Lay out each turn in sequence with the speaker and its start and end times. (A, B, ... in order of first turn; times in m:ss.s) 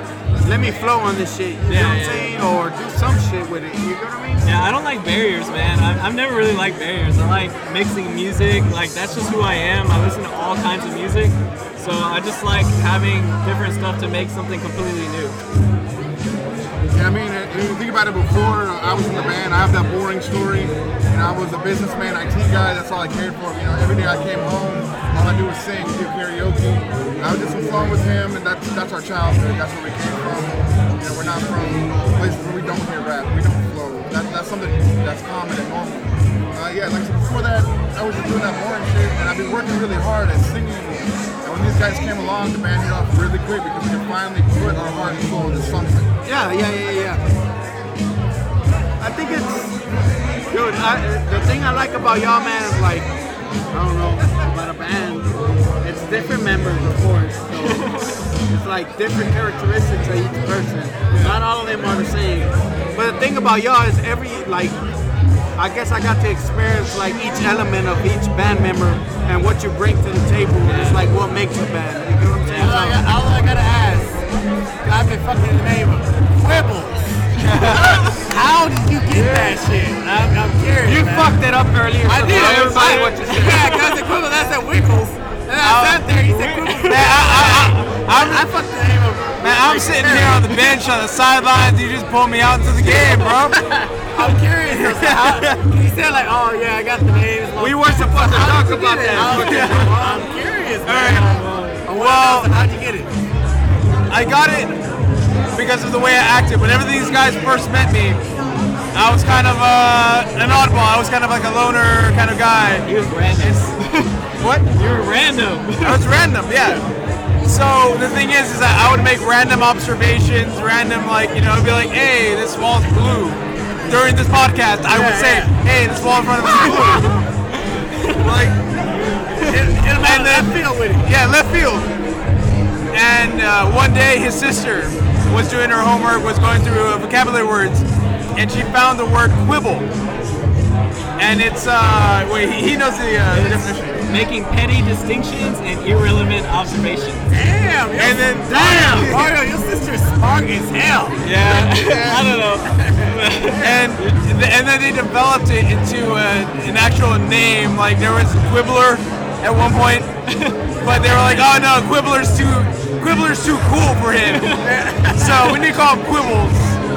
0:00.4-0:04.5 A
0:01.7-0:02.3 B
0:04.4-0:15.4 B
0:16.9-0:46.1 C
0:46.2-0:47.2 A
0:49.0-0:49.7 A
0:50.5-0:53.1 A
0:53.7-0:55.3 A
0:55.8-1:04.8 A
0:57.6-0:58.2 B
1:05.6-1:13.0 A
1:12.5-1:14.2 D
1:14.8-1:17.0 D
1:17.7-1:21.4 D
1:20.8-1:23.6 A
1:22.0-1:30.7 D
1:22.2-1:23.3 E
1:23.2-1:23.8 B
1:26.3-1:27.1 B
1:26.9-1:28.4 E
1:29.4-1:33.6 E
1:32.8-1:43.1 D
1:37.6-1:40.2 A
1:38.5-1:40.1 E
1:40.9-1:42.5 E
1:44.1-1:44.7 E
1:45.5-1:48.2 E
1:48.9-1:53.6 E
1:52.9-1:54.1 B
1:54.4-1:54.6 E
1:54.7-1:56.0 B
1:55.8-1:56.8 E
1:57.4-2:07.1 E
2:04.8-2:05.6 D
2:06.6-2:07.0 D
2:06.7-2:07.1 B
2:08.2-2:08.6 E
2:09.5-2:11.1 D
2:09.8-2:11.9 E
2:12.9-2:17.8 E
2:18.4-2:19.9 E
2:21.2-2:24.0 E
2:23.3-2:27.3 B
2:27.3-2:31.6 D
2:28.0-2:29.1 E
2:28.5-2:29.2 A
2:31.2-2:34.2 B
2:32.6-2:33.1 D
2:33.6-2:40.1 E
2:40.8-2:44.6 E
2:44.3-2:44.6 B
2:44.6-2:45.5 D
2:45.2-2:46.8 E